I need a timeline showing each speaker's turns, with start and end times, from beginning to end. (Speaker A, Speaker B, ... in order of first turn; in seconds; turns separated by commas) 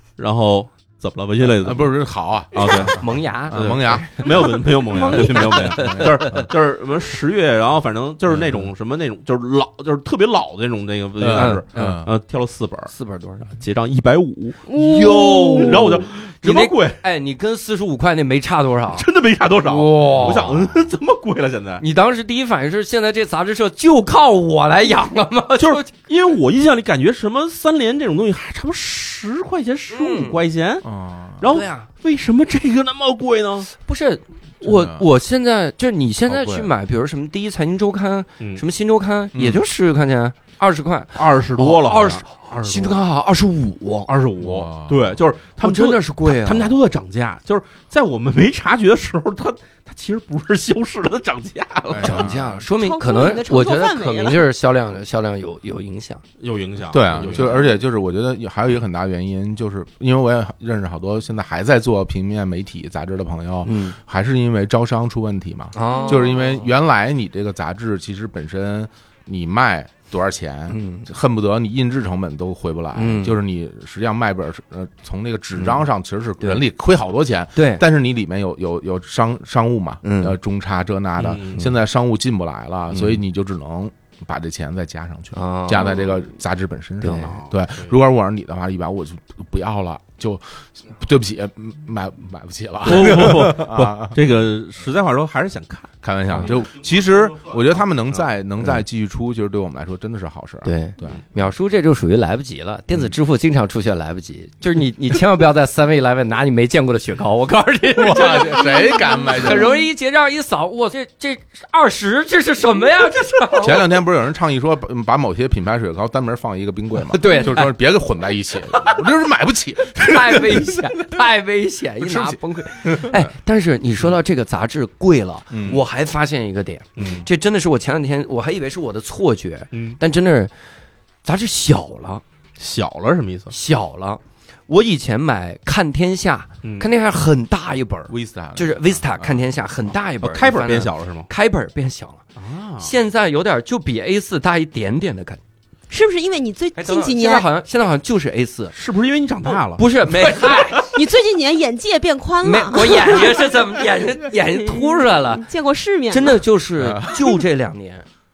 Speaker A: 0.2-1.9, Speaker B: 1.4-4.2, Speaker A: 2.5-3.0, Speaker C: 2.6-4.3, Speaker A: 3.5-12.9, Speaker D: 5.0-5.3, Speaker C: 5.1-6.5, Speaker B: 5.6-6.5, Speaker B: 8.3-8.7, Speaker B: 11.2-12.1, Speaker C: 11.3-12.0, Speaker C: 12.9-13.5, Speaker A: 13.5-17.0, Speaker D: 14.7-15.9, Speaker C: 14.7-19.1, Speaker A: 18.9-21.8, Speaker C: 19.6-20.7, Speaker B: 20.3-20.5, Speaker C: 21.8-25.9, Speaker A: 25.6-30.9, Speaker C: 29.9-30.4, Speaker B: 30.8-31.5, Speaker A: 31.4-33.7, Speaker C: 31.5-31.9, Speaker C: 33.8-44.1, Speaker B: 34.6-35.0, Speaker B: 36.3-36.7, Speaker B: 39.3-39.6, Speaker A: 41.1-43.0, Speaker A: 44.1-52.3, Speaker B: 44.4-45.2, Speaker C: 45.6-46.8, Speaker B: 51.9-52.6, Speaker C: 52.0-56.2, Speaker D: 52.7-54.5, Speaker A: 56.4-57.7, Speaker B: 56.9-94.2, Speaker C: 63.6-64.0, Speaker C: 65.8-66.7, Speaker D: 65.9-66.2, Speaker C: 70.7-71.1, Speaker C: 73.0-73.4, Speaker C: 75.6-75.9, Speaker C: 77.6-77.8, Speaker C: 80.0-80.4, Speaker A: 81.2-81.5, Speaker C: 82.9-83.2, Speaker C: 85.3-86.0, Speaker C: 87.0-87.4, Speaker A: 87.3-87.9, Speaker A: 92.8-95.9, Speaker B: 96.0-101.2, Speaker C: 100.6-113.9, Speaker B: 108.0-109.7, Speaker D: 109.0-109.8, Speaker B: 113.6-121.2, Speaker C: 117.1-117.8, Speaker C: 119.9-130.5, Speaker B: 122.0-123.3, Speaker B: 125.5-125.8, Speaker A: 127.0-127.2, Speaker B: 127.0-127.2, Speaker A: 129.7-130.0, Speaker C: 131.2-132.2, Speaker A: 132.6-133.5, Speaker C: 133.5-142.2, Speaker B: 138.1-139.4, Speaker A: 140.2-141.3, Speaker A: 142.4-142.9, Speaker C: 142.8-145.4, Speaker D: 145.9-147.5, Speaker C: 146.8-148.7, Speaker A: 148.8-150.5, Speaker C: 149.8-150.9, Speaker D: 150.9-153.4, Speaker C: 152.4-155.4, Speaker D: 154.6-156.4, Speaker C: 156.1-158.1, Speaker B: 156.8-157.4